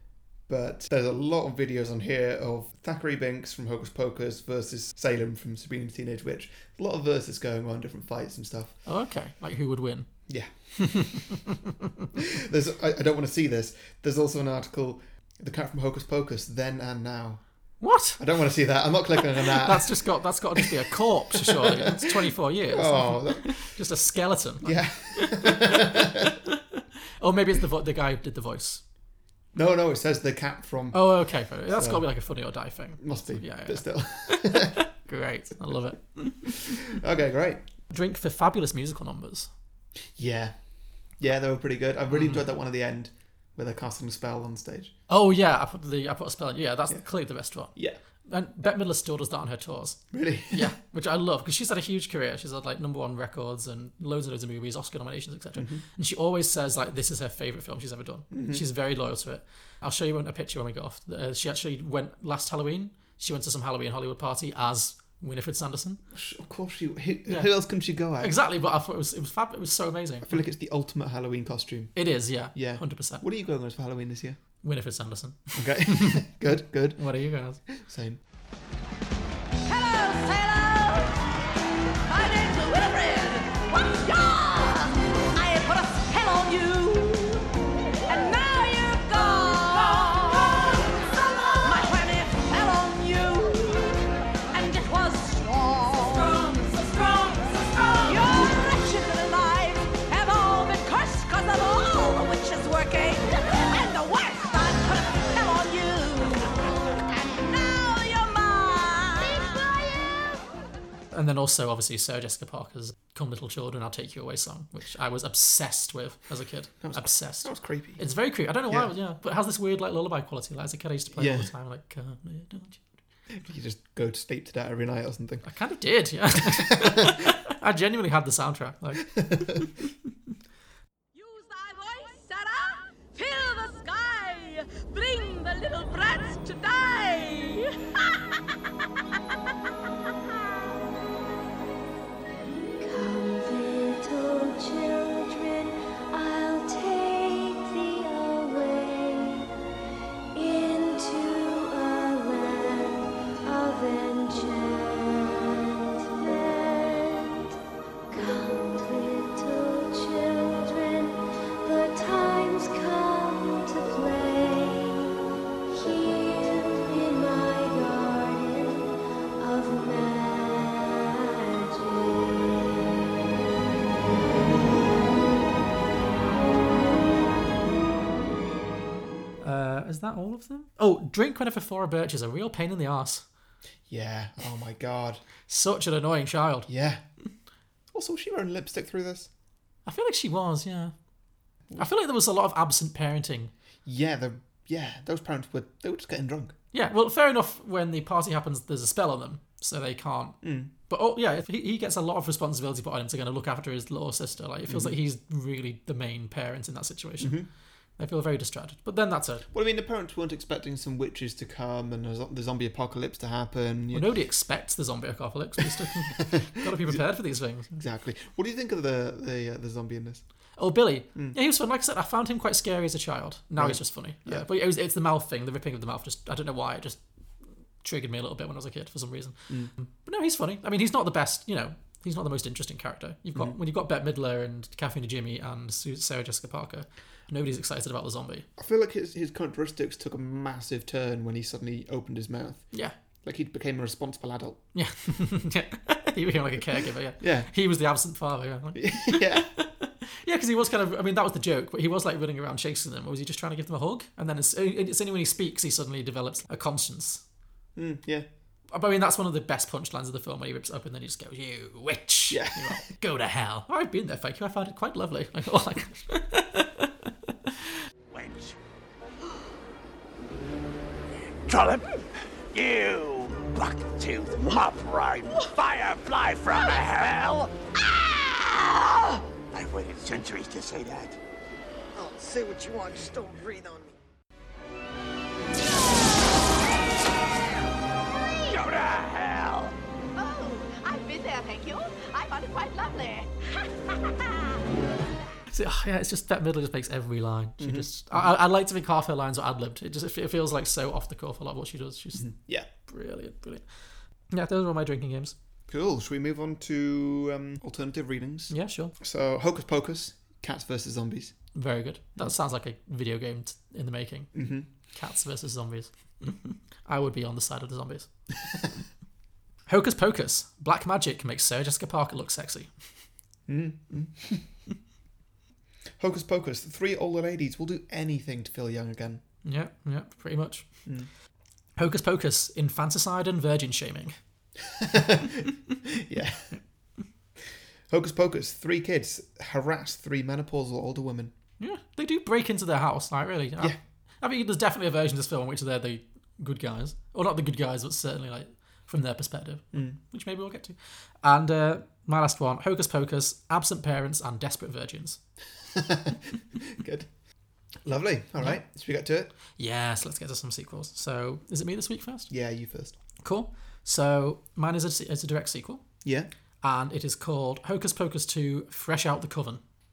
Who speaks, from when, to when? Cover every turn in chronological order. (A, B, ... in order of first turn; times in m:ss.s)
0:00.5-0:08.8 A
0:08.8-0:10.3 B
0:10.3-0:11.2 A
0:10.8-0:11.3 B
0:12.4-0:17.4 A
0:17.8-0:18.2 B
0:18.2-0:20.0 A
0:19.5-0:26.3 B
0:21.3-0:22.1 A
0:22.7-0:23.7 A
0:24.6-0:26.3 A
0:27.2-0:28.8 B
0:29.5-0:32.0 A
0:30.9-0:36.7 B
0:33.0-0:34.8 A
0:36.9-0:37.6 A
0:37.9-0:39.5 B
0:40.2-0:40.6 A
0:41.2-0:44.9 A
0:42.1-0:42.4 B
0:45.1-0:47.7 B
0:47.7-0:48.0 A
0:48.3-1:06.0 B
0:50.1-0:50.7 A
0:55.6-0:55.8 A
0:58.3-0:58.6 A
1:06.1-1:08.4 A
1:07.3-1:10.4 B
1:10.2-1:14.4 A
1:11.9-1:13.2 B
1:14.6-1:16.2 B
1:15.6-1:17.0 A
1:17.0-1:17.6 B
1:17.8-1:18.2 A
1:19.6-1:21.2 C
1:22.1-1:27.4 C
1:28.1-1:33.9 C
1:34.5-1:50.4 C
1:51.1-2:02.8 B
1:56.8-1:58.0 A
2:01.1-2:01.5 A
2:03.4-2:05.4 A
2:05.4-2:09.7 B
2:06.6-2:06.8 A
2:11.1-2:17.7 C
2:22.8-2:29.5 D
2:30.3-2:37.6 D
2:38.1-2:45.1 D
2:45.7-2:52.8 D
2:59.4-3:03.2 B
3:03.9-3:05.2 A
3:05.5-3:06.7 B
3:06.7-3:07.0 A
3:07.9-3:09.3 A
3:09.8-3:10.9 B
3:11.8-3:13.5 B
3:13.8-3:16.5 A
3:16.7-3:27.4 B
3:20.4-3:20.7 A
3:24.7-3:24.9 A
3:27.2-3:27.5 A
3:28.0-3:29.4 B
3:29.5-3:34.0 A
3:33.9-3:37.7 B
3:37.7-3:40.2 A
3:40.6-3:47.0 B
3:43.6-3:44.4 A
3:47.8-3:58.5 B
3:58.6-4:02.7 A
4:03.2-4:04.6 A
4:04.7-4:17.2 B
4:07.2-4:07.5 A
4:08.7-4:09.5 A
4:17.8-4:18.3 A
4:18.7-4:26.9 B
4:22.3-4:22.8 A
4:28.1-4:28.6 E
4:31.4-4:31.9 E
4:32.5-4:37.5 E
4:38.1-4:38.8 E
4:39.5-4:41.2 E
4:41.9-4:43.9 F
4:48.1-4:48.6 D
4:48.4-4:49.8 E
4:50.2-4:53.3 C
4:55.5-5:03.6 B
4:57.6-4:58.3 A
5:02.2-5:02.7 A
5:04.3-5:05.3 B
5:05.7-5:11.3 A
5:08.5-5:08.9 B
5:11.5-5:18.1 B
5:14.3-5:14.7 A
5:19.7-5:22.7 B
5:23.5-5:24.4 A
5:26.0-5:29.2 A
5:29.4-5:30.7 B
5:31.8-5:34.2 B
5:34.8-5:36.6 A
5:37.9-5:41.3 A
5:41.6-5:55.2 B
5:55.7-5:57.1 A
5:57.8-5:59.3 A
5:59.6-6:02.3 B
6:02.3-6:03.0 A
6:03.2-6:05.9 B
6:06.6-6:09.6 B